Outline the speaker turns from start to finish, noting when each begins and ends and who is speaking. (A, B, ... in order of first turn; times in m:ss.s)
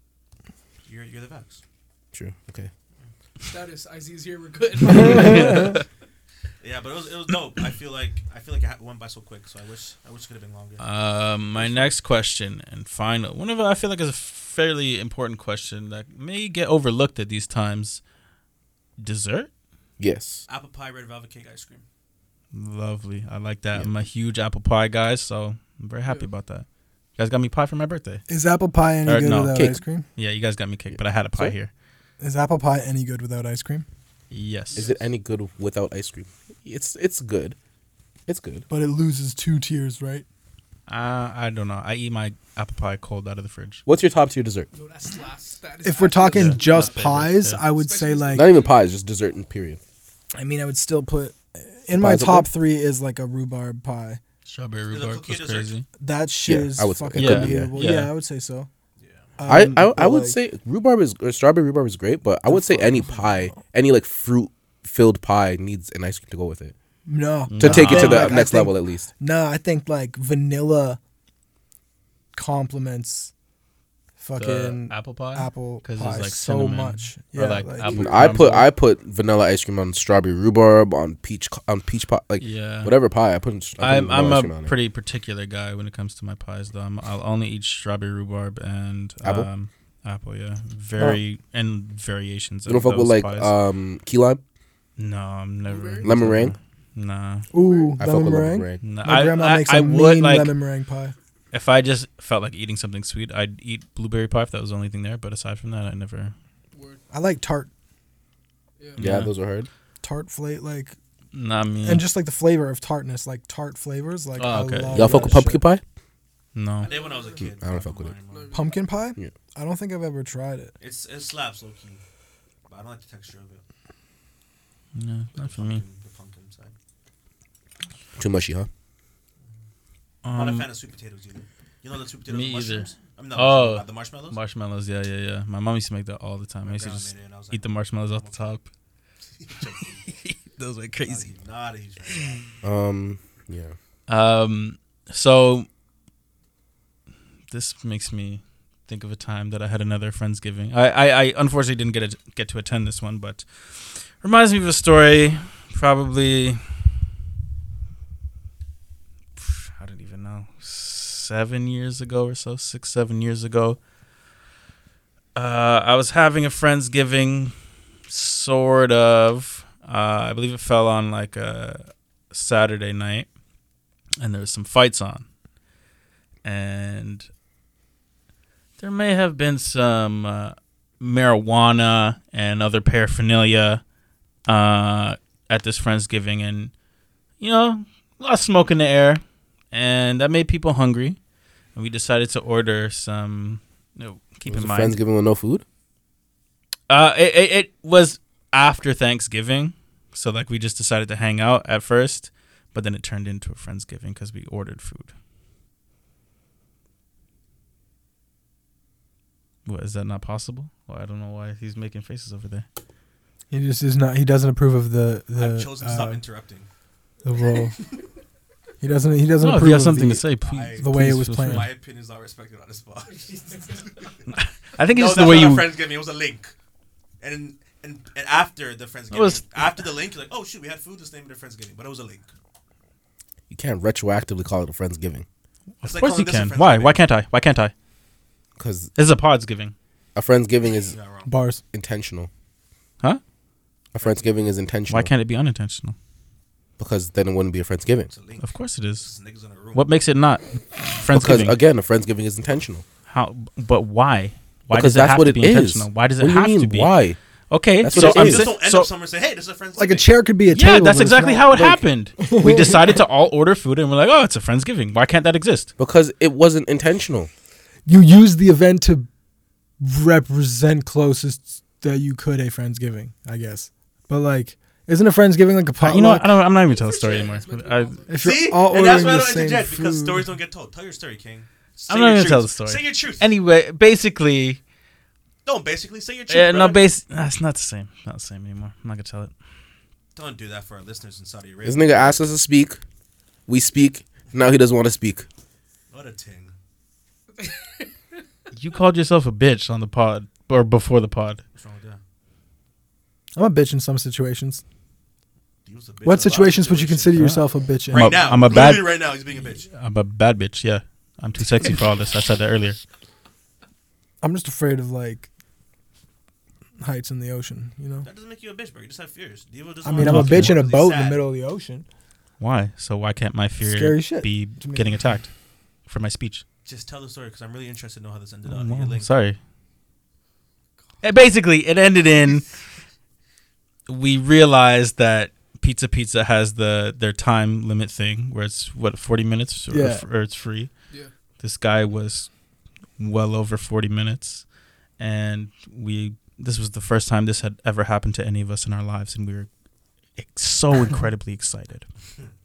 0:00.9-0:01.6 A
0:02.1-0:02.7 B
0:03.4-0:05.8 C
0:04.9-0:05.8 D
0:05.2-0:05.5 E
0:06.6-0:10.8 A
0:10.8-0:18.0 D
0:11.6-0:11.9 A
0:19.0-0:19.5 D
0:20.0-0:20.4 B
0:20.5-0:21.8 A
0:22.5-0:28.2 D
0:28.3-0:30.0 E
0:29.0-0:31.7 D
0:29.5-0:29.8 B
0:30.9-0:31.6 B
0:32.2-0:33.8 E
0:34.3-0:34.8 D
0:34.8-0:35.0 C
0:34.8-0:37.6 B
0:38.3-0:38.6 B
0:38.7-0:40.2 E
0:40.9-0:43.8 D
0:43.9-0:44.7 B
0:44.7-0:47.1 C
0:45.8-0:48.5 E
0:46.3-0:47.7 D
0:47.7-0:48.7 C
0:48.3-0:49.8 B
0:50.4-0:54.2 E
0:51.9-0:52.5 B
0:54.4-0:55.8 D
0:54.9-0:55.8 A
0:56.0-0:58.7 E
0:56.4-0:57.7 B
0:57.2-0:58.1 D
0:59.0-0:59.3 A
0:59.4-1:00.4 E
0:59.5-1:06.7 B
1:02.5-1:03.6 E
1:07.1-1:11.0 E
1:07.5-1:08.3 D
1:07.6-1:09.1 B
1:12.3-1:13.3 E
1:14.2-1:18.6 E
1:14.4-1:18.7 D
1:17.8-1:24.7 B
1:22.4-1:23.0 D
1:23.8-1:33.5 D
1:29.2-1:29.5 B
1:32.7-1:34.4 B
1:35.0-1:37.4 D
1:35.7-1:36.1 C
1:36.0-1:36.6 B
1:37.5-1:41.1 E
1:37.6-1:38.0 C
1:38.0-1:38.8 B
1:38.8-1:40.5 D
1:41.5-1:46.3 D
1:46.7-1:47.0 C
1:47.1-1:47.7 E
1:48.8-1:49.0 C
1:49.0-1:49.3 D
1:49.0-1:49.7 B
1:50.0-1:51.0 E
1:51.3-1:52.0 D
1:51.8-1:55.6 E
1:54.4-1:55.5 D
1:54.9-1:55.8 B
1:56.6-1:56.9 D
1:56.8-1:57.5 C
1:56.8-1:58.6 A
1:57.6-1:58.1 B
1:58.3-1:58.9 C
1:58.5-2:00.7 E
2:00.8-2:02.0 A
2:02.7-2:03.6 A
2:04.9-2:05.8 D
2:05.3-2:06.7 A
2:08.2-2:08.7 B
2:10.2-2:10.7 D
2:10.3-2:14.4 A
2:12.3-2:18.7 D
2:16.6-2:18.5 A
2:19.4-2:20.1 A
2:20.0-2:21.3 D
2:21.0-2:22.4 A
2:22.1-2:22.4 D
2:22.6-2:23.7 B
2:24.1-2:25.7 D
2:27.5-2:36.6 D
2:39.4-2:43.8 D
2:45.3-2:47.5 D
2:48.1-2:53.3 D
2:54.2-2:55.3 D
2:56.4-2:57.3 D
2:58.8-3:03.8 D
3:04.4-3:06.7 D
3:07.4-3:11.2 D
3:11.7-3:15.0 D
3:14.5-3:15.6 B
3:16.9-3:25.1 D
3:29.6-3:32.6 D
3:33.5-3:36.2 E
3:35.3-3:36.7 A
3:37.2-3:37.8 E
3:38.8-3:40.3 E
3:39.4-3:41.7 D
3:40.4-3:44.2 A
3:40.8-3:41.7 E
3:43.1-3:44.1 C
3:44.3-3:45.7 D
3:44.9-3:46.5 A
3:47.2-3:52.3 A
3:49.1-3:49.9 D
3:53.5-3:55.3 B
3:55.8-3:57.7 D
3:55.8-3:57.0 A
3:58.6-3:58.9 B
3:58.9-3:59.7 D
4:00.1-4:00.9 B
4:00.7-4:01.3 A
4:01.3-4:01.6 E
4:01.7-4:02.3 B
4:03.9-4:05.1 B
4:04.0-4:04.3 A
4:04.9-4:05.9 D
4:06.8-4:08.1 B
4:08.1-4:09.9 A
4:08.4-4:09.1 D
4:09.7-4:11.6 D
4:11.1-4:12.8 B
4:13.1-4:16.9 D
4:14.7-4:17.2 B
4:17.5-4:18.9 D
4:17.8-4:18.5 B
4:17.9-4:20.1 A
4:19.8-4:23.0 E
4:20.5-4:25.7 D
4:25.8-4:27.3 B
4:27.9-4:29.1 E
4:29.8-4:36.3 E
4:35.8-4:38.0 D
4:36.6-4:38.3 C
4:38.1-4:40.3 E
4:38.2-4:43.3 A
4:41.9-4:44.6 D
4:45.4-4:46.9 A
4:46.3-4:49.3 D
4:50.2-4:52.2 A
4:51.6-4:52.8 B
4:53.5-4:55.3 B
4:55.9-4:56.5 A
4:57.4-4:57.9 C
4:58.5-5:01.4 D
5:01.6-5:02.0 A
5:03.4-5:04.6 E
5:05.6-5:07.3 A
5:06.0-5:08.4 E
5:07.1-5:12.8 D
5:07.8-5:09.7 A
5:14.2-5:15.3 E
5:16.8-5:18.1 E
5:18.0-5:21.2 A
5:19.8-5:21.8 E
5:20.0-5:20.6 D
5:22.4-5:25.3 D
5:23.6-5:25.0 E
5:25.8-5:26.4 D
5:26.6-5:29.1 A
5:28.4-5:29.4 D
5:31.0-5:32.5 D
5:33.9-5:40.7 D
5:39.7-5:40.0 E
5:41.4-5:42.3 D
5:43.0-5:44.5 D
5:45.0-5:49.5 D
5:50.2-5:51.9 D